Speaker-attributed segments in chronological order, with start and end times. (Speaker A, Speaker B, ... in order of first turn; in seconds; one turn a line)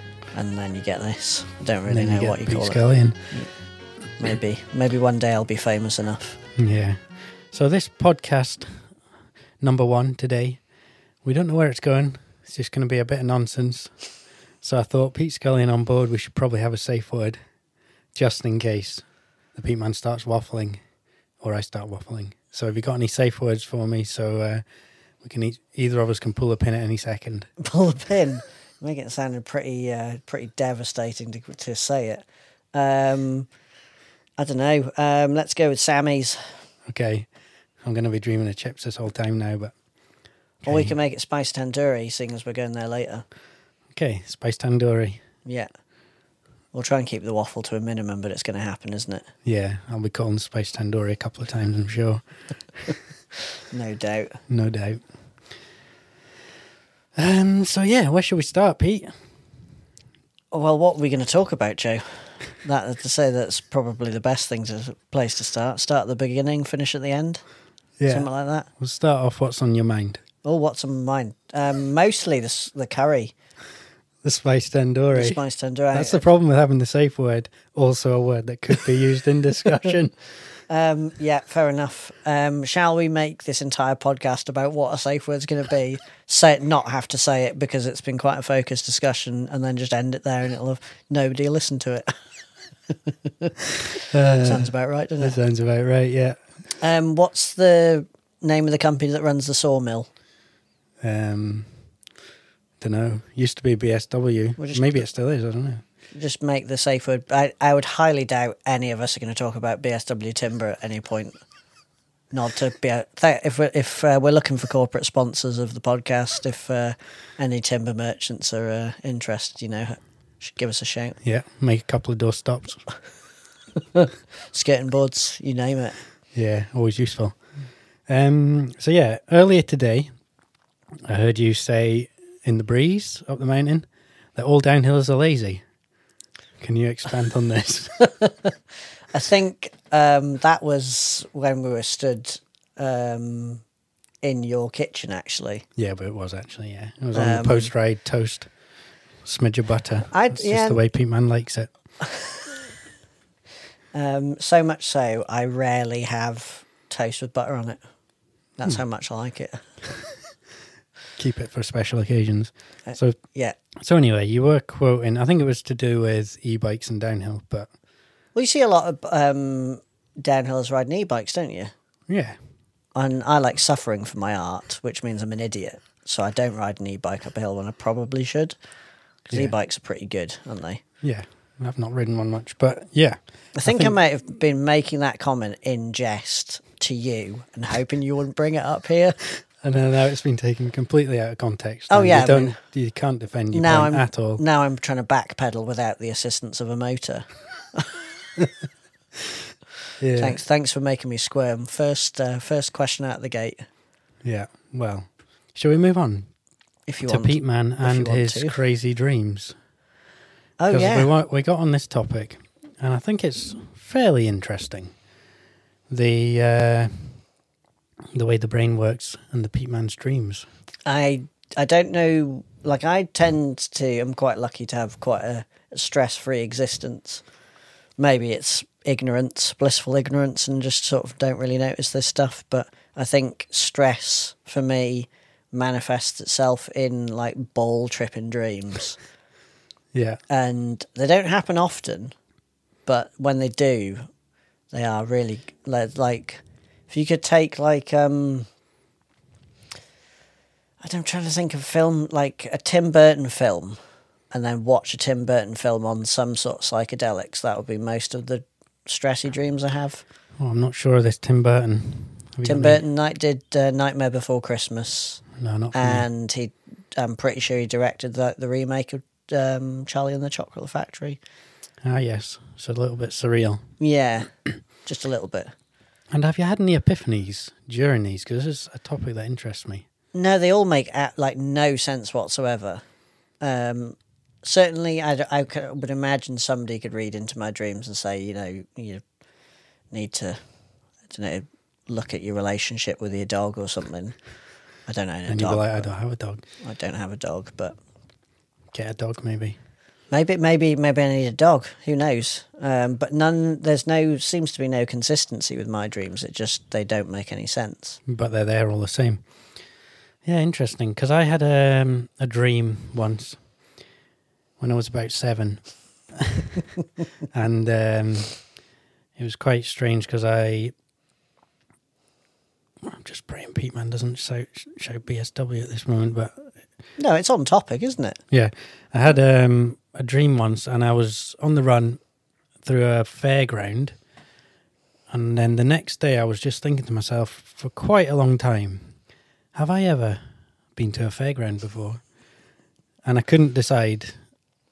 Speaker A: 0.3-3.5
Speaker B: 1.9-3.3
Speaker A: 4.2-6.4
Speaker B: 6.5-8.9
Speaker B: 9.6-10.6
Speaker B: 11.2-13.9
Speaker B: 14.6-17.4
Speaker B: 18.1-19.0
Speaker B: 19.5-20.8
Speaker B: 21.4-24.6
Speaker B: 25.2-27.5
Speaker A: 27.6-33.5
Speaker A: 34.4-36.6
Speaker B: 36.9-37.3
Speaker B: 37.8-39.7
Speaker B: 40.6-40.9
Speaker A: 40.6-43.2
Speaker B: 43.9-45.2
Speaker A: 46.7-49.3
Speaker B: 49.4-52.2
Speaker A: 53.7-54.4
Speaker B: 54.5-55.0
Speaker B: 57.1-59.1
Speaker A: 60.5-67.4
Speaker B: 68.0-70.2
Speaker A: 68.1-68.7
Speaker A: 70.4-73.3
Speaker B: 74.2-75.4
Speaker A: 75.1-76.2
Speaker B: 75.9-80.2
Speaker A: 80.7-92.2
Speaker A: 92.9-95.4
Speaker B: 94.1-96.4
Speaker A: 96.8-100.1
Speaker B: 101.0-101.7
Speaker B: 102.8-105.8
Speaker A: 104.6-105.0
Speaker A: 106.1-111.4
Speaker A: 112.3-121.2
Speaker B: 121.2-122.8
Speaker A: 123.8-126.0
Speaker B: 126.3-127.4
Speaker B: 128.1-130.1
Speaker B: 131.0-135.6
Speaker B: 136.6-138.0
Speaker A: 138.0-138.5
Speaker A: 139.1-143.6
Speaker A: 144.2-145.7
Speaker B: 145.8-148.5
Speaker A: 147.1-147.7
Speaker B: 149.2-151.7
Speaker A: 150.1-150.8
Speaker A: 152.0-152.6
Speaker A: 153.9-157.8
Speaker A: 158.6-159.7
Speaker B: 161.2-163.2
Speaker A: 162.8-163.6
Speaker B: 163.8-167.7
Speaker A: 168.3-171.7
Speaker B: 172.1-172.4
Speaker A: 172.9-178.5
Speaker A: 179.3-180.8
Speaker B: 181.0-184.0
Speaker A: 183.6-189.2
Speaker B: 189.6-194.4
Speaker A: 191.9-192.6
Speaker A: 193.5-198.0
Speaker B: 200.0-200.4
Speaker A: 200.2-203.6
Speaker B: 204.2-206.3
Speaker A: 206.9-208.6
Speaker B: 207.1-209.6
Speaker A: 210.6-211.1
Speaker B: 210.7-214.9
Speaker B: 215.9-217.2
Speaker B: 218.1-220.4
Speaker A: 220.8-227.2
Speaker A: 228.0-239.0
Speaker B: 239.9-240.2
Speaker A: 240.3-242.1
Speaker A: 242.9-244.1
Speaker A: 244.7-248.5
Speaker A: 250.8-253.8
Speaker A: 254.3-260.0
Speaker B: 260.4-262.8
Speaker A: 262.4-271.2
Speaker B: 265.4-266.1
Speaker B: 271.8-273.6
Speaker A: 273.8-274.3
Speaker A: 274.8-275.5
Speaker B: 276.1-279.9
Speaker A: 280.1-282.8
Speaker A: 283.4-289.0
Speaker A: 289.9-290.4
Speaker A: 291.1-294.1
Speaker A: 294.9-295.9
Speaker B: 295.3-296.4
Speaker A: 296.6-297.7
Speaker B: 298.7-299.6
Speaker A: 300.1-308.0
Speaker B: 308.1-309.2
Speaker B: 310.2-313.4
Speaker B: 314.6-316.7
Speaker B: 317.3-318.4
Speaker B: 319.2-320.7
Speaker B: 322.8-326.5
Speaker A: 327.0-328.2
Speaker B: 328.3-332.0
Speaker B: 332.6-333.9
Speaker B: 335.1-338.9
Speaker B: 339.5-340.2
Speaker B: 340.8-342.0
Speaker B: 343.0-344.1